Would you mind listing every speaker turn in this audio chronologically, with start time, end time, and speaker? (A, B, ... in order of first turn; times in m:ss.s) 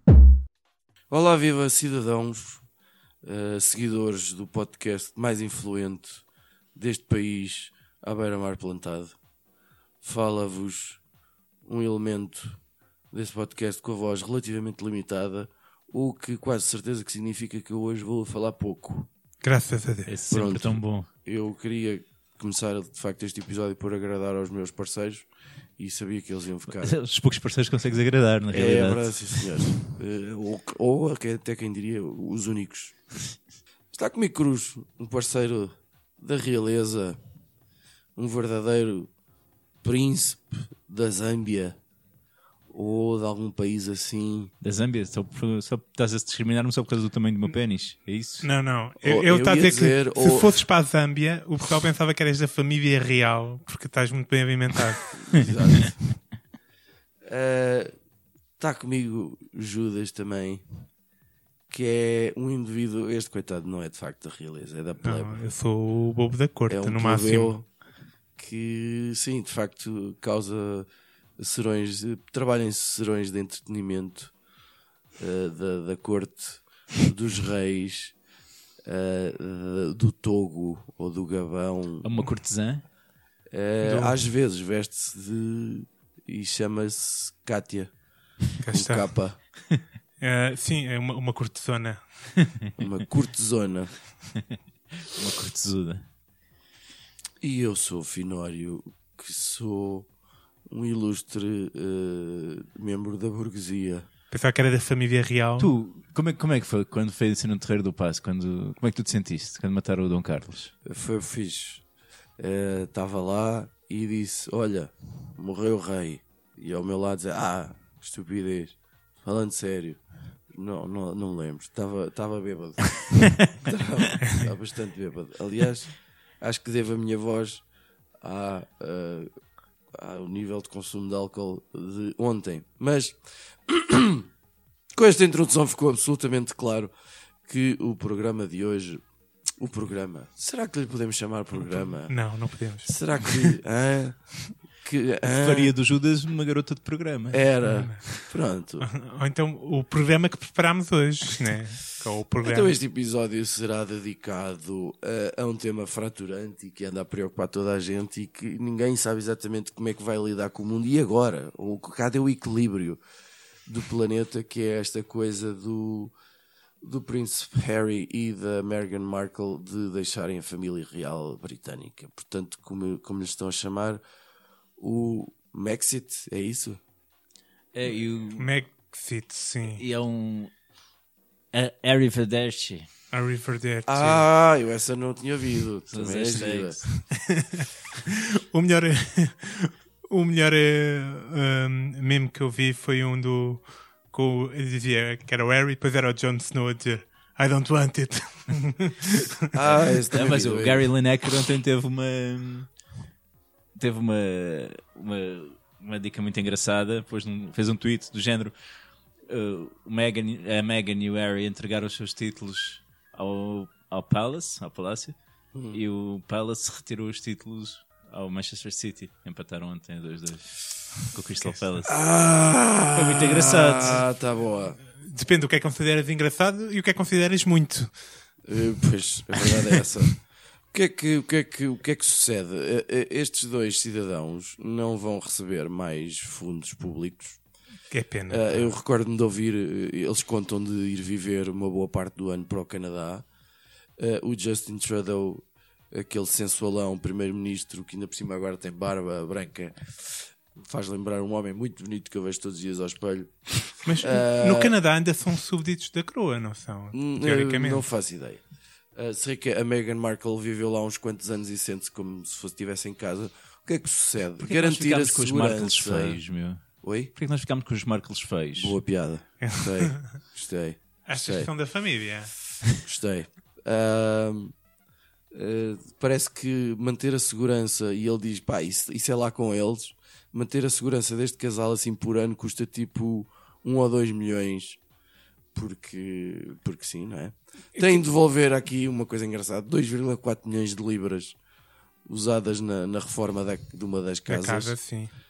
0:01.1-0:02.6 A
0:03.2-0:06.2 A
0:06.8-0:09.1 A
0:10.0-0:11.0 A
0:11.6-0:12.6 A
0:13.1-0:19.1 A
0:19.4-0:20.1 B
0:20.0-0:21.1 C
0:20.3-0:27.0 A
0:26.7-0:29.8 C
0:28.5-0:33.0 A
0:33.9-0:37.2 A
0:38.2-0:39.1 A
0:39.8-0:41.8 A
0:42.7-0:44.5 A
0:44.6-0:48.5 C
0:48.4-0:55.4 B
0:49.0-0:50.6 A
0:55.2-0:56.0 A
0:57.2-0:57.9 A
0:58.6-1:00.6 A
1:01.7-1:05.4 A
1:05.0-1:07.6 B
1:06.7-1:07.6 A
1:08.4-1:10.9 A
1:11.4-1:14.3 A
1:15.2-1:18.1 A
1:18.8-1:22.2 A
1:22.0-1:22.8 C
1:23.5-1:27.9 A
1:23.8-1:24.2 B
1:28.6-1:29.1 B
1:28.7-1:29.4 A
1:30.2-1:32.5 B
1:32.8-1:33.9 A
1:34.3-1:36.1 C
1:37.4-1:40.1 A
1:40.7-1:44.1 A
1:44.3-1:45.7 B
1:45.6-1:50.7 C
1:50.8-1:51.8 A
1:52.4-2:07.6 A
2:08.2-2:09.3 A
2:09.9-2:14.3 A
2:14.9-2:16.9 A
2:17.5-2:19.0 A
2:19.6-2:22.1 A
2:21.7-2:23.6 B
2:22.8-2:24.2 A
2:24.8-2:25.8 A
2:25.2-2:27.4 C
2:27.3-2:28.9 A
2:27.6-2:28.1 B
2:28.8-2:32.8 B
2:32.4-2:43.0 A
2:43.7-2:46.2 A
2:46.8-2:54.0 A
2:54.8-2:56.8 A
2:57.7-2:58.5 C
2:58.4-2:59.8 B
2:59.6-3:00.5 C
3:01.5-3:02.9 C
3:03.1-3:04.2 B
3:03.8-3:06.8 A
3:05.9-3:06.9 C
3:06.9-3:19.6 B
3:19.5-3:20.9 A
3:20.1-3:22.7 C
3:23.8-3:28.5 C
3:29.3-3:35.2 C
3:35.5-3:35.8 A
3:35.7-3:41.9 C
3:41.9-3:44.8 A
3:42.9-3:44.0 C
3:45.0-3:47.9 B
3:48.5-3:50.2 A
3:49.4-3:49.8 B
3:50.7-3:57.4 A
3:57.9-3:58.7 B
3:58.3-4:03.2 A
4:04.0-4:14.8 A
4:13.8-4:17.9 B
4:16.9-4:18.4 A
4:18.9-4:26.2 A
4:24.4-4:26.6 C
4:26.8-4:27.1 A
4:27.1-4:28.8 C
4:28.6-4:31.5 A
4:29.4-4:30.1 B
4:31.1-4:32.3 B
4:32.8-4:34.5 A
4:35.3-4:44.8 A
4:45.5-4:51.4 A
4:52.1-4:54.8 A
4:54.3-4:55.1 B